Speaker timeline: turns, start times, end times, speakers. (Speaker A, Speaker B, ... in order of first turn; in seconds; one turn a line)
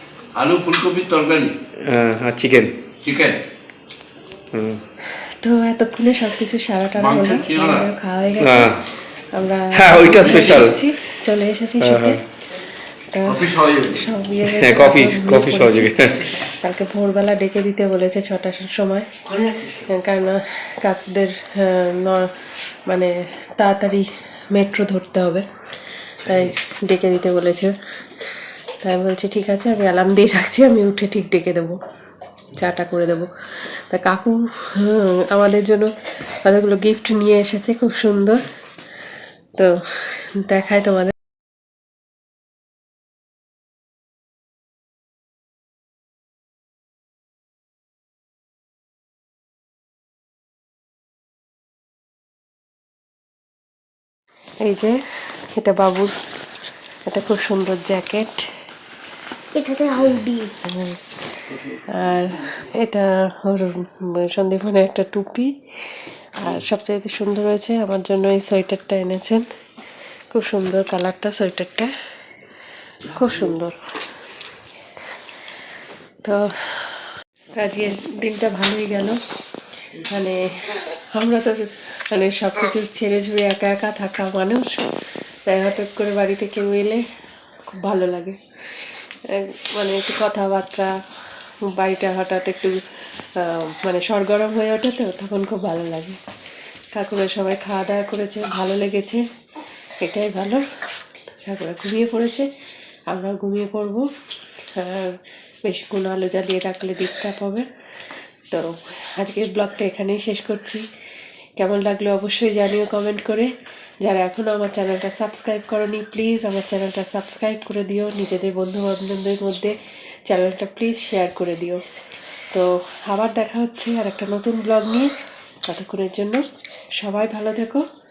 Speaker A: 0.3-1.5
Speaker B: 1.9-2.7
Speaker A: 3.0-3.4
Speaker B: 4.5-4.8
Speaker C: 5.2-8.8
Speaker A: 7.0-7.9
Speaker B: 8.4-8.8
Speaker C: 9.3-12.2
Speaker B: 9.7-10.8
Speaker B: 11.8-12.2
Speaker C: 13.1-22.3
Speaker A: 13.2-14.1
Speaker B: 14.4-16.4
Speaker C: 22.9-25.4
Speaker C: 26.2-27.7
Speaker C: 28.8-31.8
Speaker C: 32.5-38.4
Speaker C: 39.5-41.1
Speaker C: 54.6-56.1
Speaker C: 57.1-58.5
Speaker C: 59.5-61.0
Speaker C: 61.9-69.5
Speaker C: 70.3-71.9
Speaker C: 73.1-73.8
Speaker C: 76.2-77.0
Speaker C: 77.5-79.2
Speaker C: 79.9-84.9
Speaker C: 85.5-87.0
Speaker C: 87.7-90.9
Speaker C: 91.7-92.8
Speaker C: 93.3-96.2
Speaker C: 96.9-99.2
Speaker C: 100.0-100.7
Speaker C: 101.3-102.5
Speaker C: 103.1-104.1
Speaker C: 104.7-107.7
Speaker C: 108.5-110.9
Speaker C: 111.5-113.5
Speaker C: 114.0-121.8
Speaker C: 122.5-125.1
Speaker C: 125.7-126.4
Speaker C: 127.0-127.8